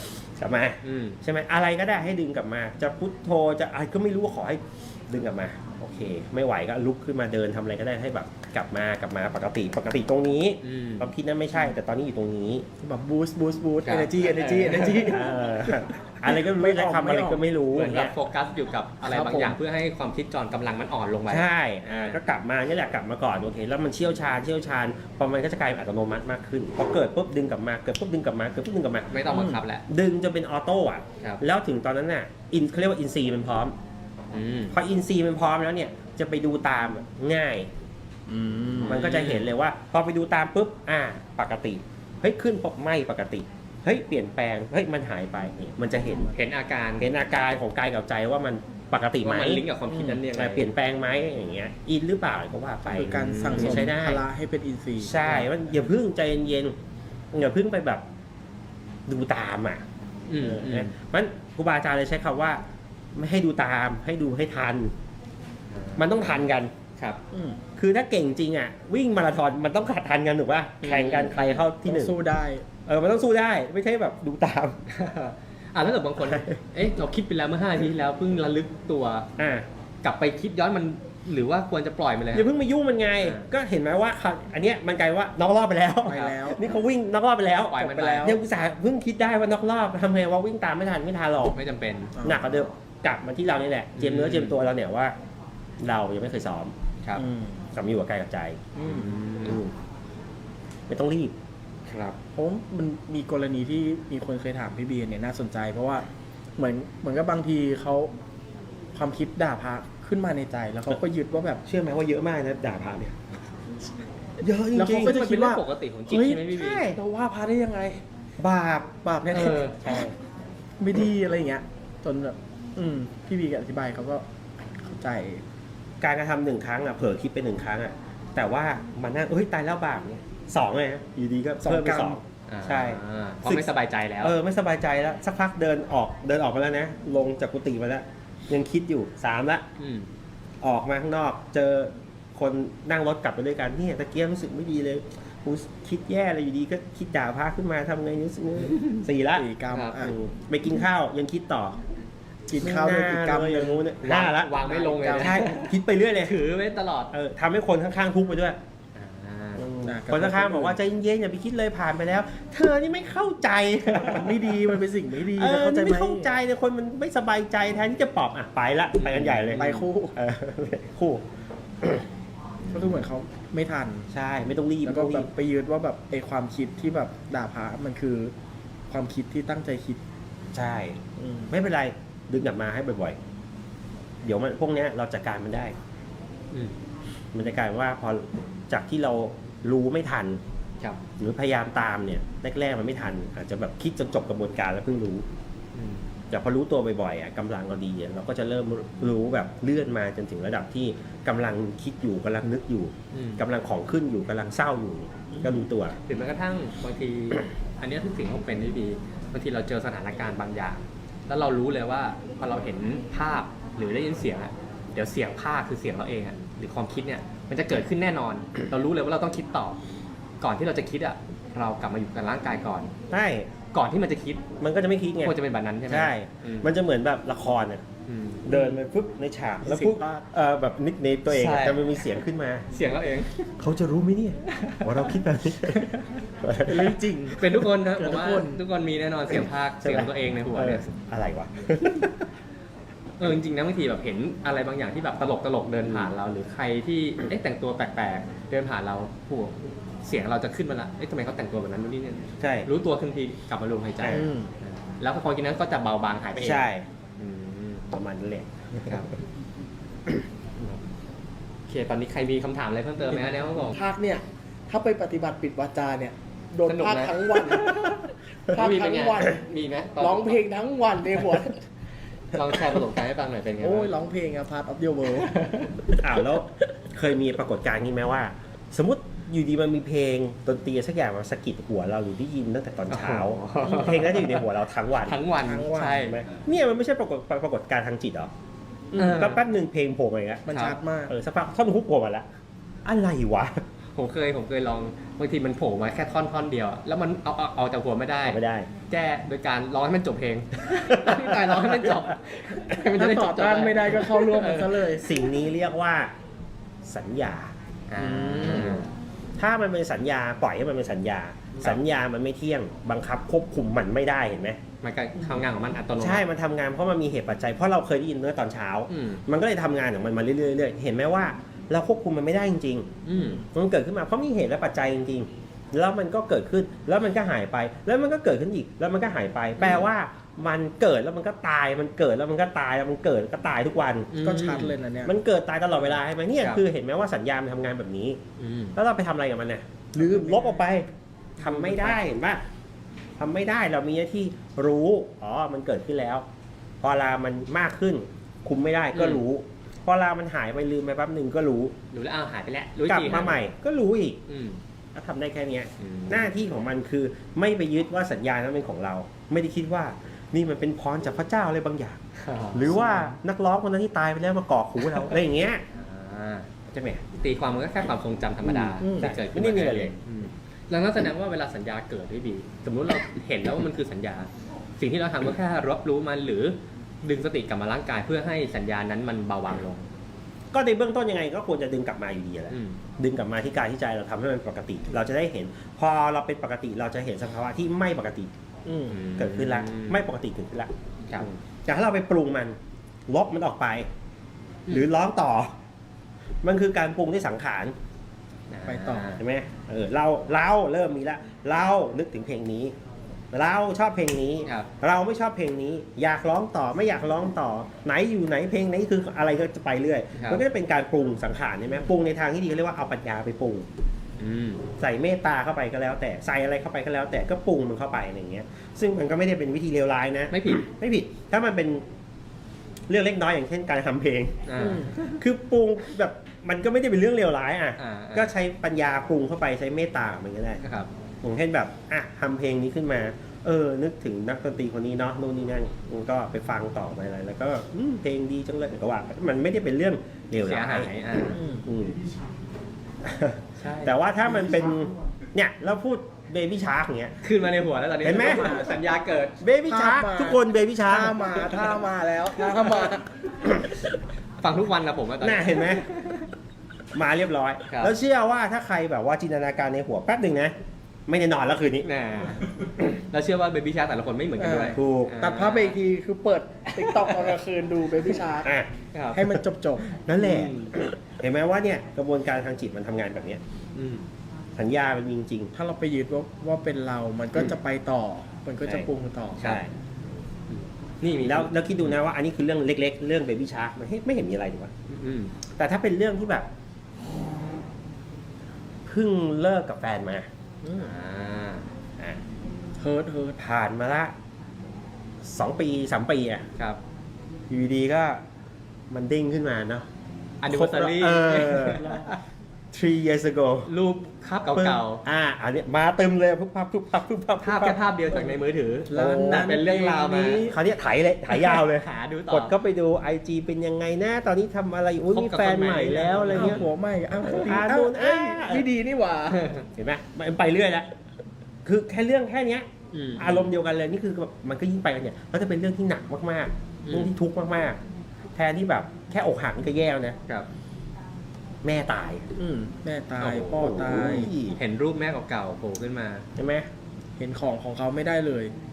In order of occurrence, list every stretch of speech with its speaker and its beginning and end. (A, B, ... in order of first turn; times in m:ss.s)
0:00.4-0:12.6 A
0:00.8-0:01.2 B
0:10.6-0:11.1 B
0:12.8-0:17.4 C
0:13.8-0:15.1 B
0:15.1-0:18.1 A
0:17.7-0:22.2 B
0:19.0-0:19.6 C
0:21.3-0:29.1 A
0:29.1-0:29.8 B
0:29.3-0:29.6 C
0:29.9-0:33.7 A
0:34.3-0:34.7 B
0:34.7-0:37.7 A
0:38.3-0:39.0 C
0:38.8-0:39.5 B
0:38.8-0:46.3 A
0:46.3-0:47.1 B
0:47.0-0:49.6 A
0:49.2-0:50.7 B
0:49.9-0:50.2 C
0:50.3-0:54.2 A
0:52.8-0:55.4 C
0:52.9-0:54.0 B
0:55.0-0:56.7 A
0:57.3-0:58.0 A
0:59.1-0:59.8 A
1:00.3-1:00.9 B
1:00.4-1:02.6 A
1:03.2-1:04.9 A
1:05.7-1:06.4 B
1:06.0-1:06.7 A
1:07.3-1:07.6 C
1:07.8-1:12.2 A
1:10.8-1:11.6 B
1:11.8-1:12.6 C
1:12.8-1:14.8 A
1:14.9-1:19.3 B
1:16.2-1:16.5 A
1:19.4-1:19.6 A
1:20.0-1:22.5 B
1:22.3-1:31.6 A
1:23.2-1:23.5 B
1:26.0-1:26.7 C
1:26.1-1:26.4 B
1:27.6-1:28.4 B
1:31.5-1:32.3 B
1:32.2-1:32.6 C
1:32.2-1:35.1 A
1:34.0-1:34.6 B
1:35.8-1:36.7 A
1:37.2-1:37.6 C
1:37.7-1:38.7 A
1:38.7-1:39.2 C
1:38.8-1:39.6 B
1:39.4-1:39.7 A
1:40.9-1:41.3 A
1:41.9-1:42.2 B
1:42.3-1:48.1 C
1:48.9-1:51.6 C
1:51.6-1:53.2 A
1:54.4-1:55.2 A
1:54.7-1:58.0 C
1:54.9-1:56.8 B
1:56.1-1:57.0 A
1:58.4-2:00.1 A
1:59.0-2:00.1 C
1:59.3-2:00.0 B
2:00.8-2:05.4 C
2:06.0-2:13.7 A
2:11.6-2:12.2 C
2:12.5-2:14.4 B
2:14.2-2:19.6 A
2:19.8-2:20.1 B
2:20.6-2:29.5 A
2:28.7-2:29.0 B
2:29.3-2:30.1 C
2:29.7-2:30.1 B
2:30.0-2:31.8 A
2:32.5-2:33.9 C
2:32.6-2:36.4 A
2:34.0-2:37.1 B
2:34.6-2:35.5 C
2:37.1-2:38.6 A
2:39.0-2:39.7 B
2:39.6-2:44.7 A
2:39.8-2:40.8 C
2:43.9-2:46.4 C
2:45.3-2:51.2 A
2:49.0-2:49.9 B
2:49.5-2:50.1 C
2:52.6-2:53.0 B
2:52.7-2:54.1 C
2:54.1-2:55.3 A
2:54.8-2:58.3 C
2:58.9-3:00.0 C
3:00.5-3:01.0 A
3:01.2-3:01.5 C
3:01.5-3:03.2 A
3:04.2-3:05.7 A
3:07.3-3:10.4 A
3:11.2-3:15.2 A
3:15.7-3:16.0 B
3:16.3-3:26.0 A
3:23.1-3:23.4 B
3:25.3-3:25.6 C
3:26.0-3:39.8 B
3:40.4-3:42.9 B
3:43.1-3:43.5 A
3:43.7-3:44.4 B
3:44.6-3:45.3 A
3:45.2-3:46.7 B
3:45.9-3:47.8 A
3:48.1-3:48.8 B
3:48.4-3:52.7 A
3:49.6-3:50.2 C
3:51.3-3:51.9 B
3:52.7-3:53.5 B
3:53.6-3:55.9 A
3:54.5-3:56.1 B
3:56.4-3:57.5 A
3:56.6-3:58.6 C
3:57.3-4:00.9 B
3:59.8-4:02.2 A
4:03.2-4:16.7 B
4:12.4-4:12.7 A
4:14.1-4:14.5 C
4:16.4-4:16.8 A
4:17.2-4:17.8 B
4:17.9-4:19.0 A
4:21.7-4:23.7 B
4:23.7-4:28.0 C
4:26.6-4:30.4 B
4:28.5-4:29.4 C
4:30.0-4:31.6 C
4:32.3-4:34.0 B
4:33.6-4:35.4 C
4:35.2-4:35.9 B
4:36.0-4:45.2 A
4:42.9-4:44.4 B
4:43.6-4:44.0 C
4:45.0-4:46.2 B
4:45.4-4:46.1 C
4:45.9-4:48.3 A
4:48.9-4:49.4 C
4:48.9-4:49.4 B
4:49.0-4:50.4 A
4:50.5-4:51.1 C
4:50.5-4:50.8 B
4:51.0-4:52.2 A
4:52.8-4:53.6 A
4:54.0-5:05.0 B
4:58.3-4:58.7 A
5:00.8-5:02.0 A
5:02.7-5:05.1 C
5:04.9-5:06.1 A
5:06.8-5:07.5 A
5:07.9-5:08.9 B
5:08.0-5:08.8 C
5:08.4-5:08.8 A
5:09.4-5:14.6 A
5:14.8-5:16.2 B
5:16.0-5:34.1 A
5:18.9-5:19.2 B
5:23.0-5:23.4 B
5:29.6-5:29.9 B
5:34.1-5:34.7 B
5:34.2-5:35.1 C
5:35.0-5:38.2 A
5:38.4-5:38.8 B
5:38.7-5:40.9 A
5:40.0-5:40.6 C
5:41.4-5:42.0 C
5:41.4-5:42.4 A
5:43.2-5:46.2 A
5:46.8-5:51.7 A
5:48.9-5:49.2 B
5:51.9-5:53.4 B
5:52.8-5:54.2 A
5:54.3-5:54.6 B
5:54.9-6:02.0 A
5:55.8-5:56.3 B
6:02.2-6:02.7 B
6:02.5-6:05.6 A
6:02.7-6:03.1 C
6:05.7-6:06.5 B
6:06.7-6:07.0 A
6:07.1-6:14.3 B
6:08.4-6:09.9 A
6:08.8-6:09.1 C
6:14.8-6:19.9 B
6:20.5-6:28.3 A
6:22.5-6:22.8 B
6:28.6-6:29.0 C
6:28.9-6:30.0 B
6:29.2-6:32.5 A
6:33.1-6:33.8 A
6:34.7-6:35.5 A
6:36.4-6:37.7 A
6:38.5-6:39.2 B
6:38.6-6:39.1 C
6:39.1-6:42.7 A
6:43.3-6:53.6 A
6:44.4-6:44.7 B
6:50.1-6:50.4 B
6:54.2-6:54.6 B
6:54.7-7:01.8 A
7:00.3-7:00.7 B
7:02.9-7:10.6 A
7:04.4-7:05.2 B
7:04.6-7:04.9 C
7:07.8-7:08.3 B
7:10.6-7:10.9 B
7:11.2-7:20.9 A
7:20.4-7:21.4 B
7:21.3-7:21.7 C
7:21.5-7:22.0 A
7:23.0-7:27.2 A
7:23.6-7:24.0 B
7:27.2-7:29.4 B
7:28.0-7:28.7 A
7:28.0-7:28.8 C
7:29.4-7:31.8 A
7:29.6-7:33.2 C
7:32.4-7:33.0 B
7:34.4-7:36.3 B
7:35.2-7:35.9 A
7:36.9-7:40.5 A
7:37.7-7:37.9 B
7:41.1-7:41.9 A
7:41.8-7:45.8 B
7:44.4-7:48.5 C
7:44.7-7:45.2 A
7:46.8-7:47.4 B
7:48.4-7:48.7 A
7:48.9-7:49.3 B
7:49.1-7:49.9 C
7:49.8-7:50.8 B
7:50.0-7:53.4 A
7:53.8-7:54.0 B
7:54.6-7:55.5 A
7:55.5-7:59.6 C
7:59.4-7:59.6 B
7:59.4-7:59.7 A
8:00.5-8:01.9 B
8:01.1-8:04.7 A
8:04.9-8:05.4 B
8:05.5-8:06.4 A
8:08.8-8:10.3 A
8:10.6-8:10.9 C
8:10.7-8:11.7 B
8:12.8-8:13.4 C
8:13.4-8:14.1 A
8:15.2-8:16.4 A
8:17.5-8:18.2 A
8:18.9-8:19.8 A
8:20.4-8:22.2 B
8:20.5-8:22.0 A
8:22.7-8:23.7 A
8:23.6-8:25.0 B
8:24.5-8:28.2 A
8:27.4-8:30.5 B
8:28.9-8:30.6 C
8:28.9-8:29.5 A
8:30.2-8:36.7 A
8:31.3-8:32.5 B
8:35.1-8:36.7 B
8:36.2-8:39.6 C
8:37.3-8:38.6 A
8:37.3-8:37.6 B
8:39.3-8:39.6 B
8:39.8-8:40.9 A
8:41.6-8:47.8 A
8:42.9-8:43.5 B
8:46.8-8:47.1 B
8:48.4-8:50.2 A
8:51.6-8:52.2 A
8:52.4-8:54.3 C
8:53.2-8:56.2 B
8:53.5-8:54.6 A
8:56.4-8:56.7 A
8:57.2-8:58.5 C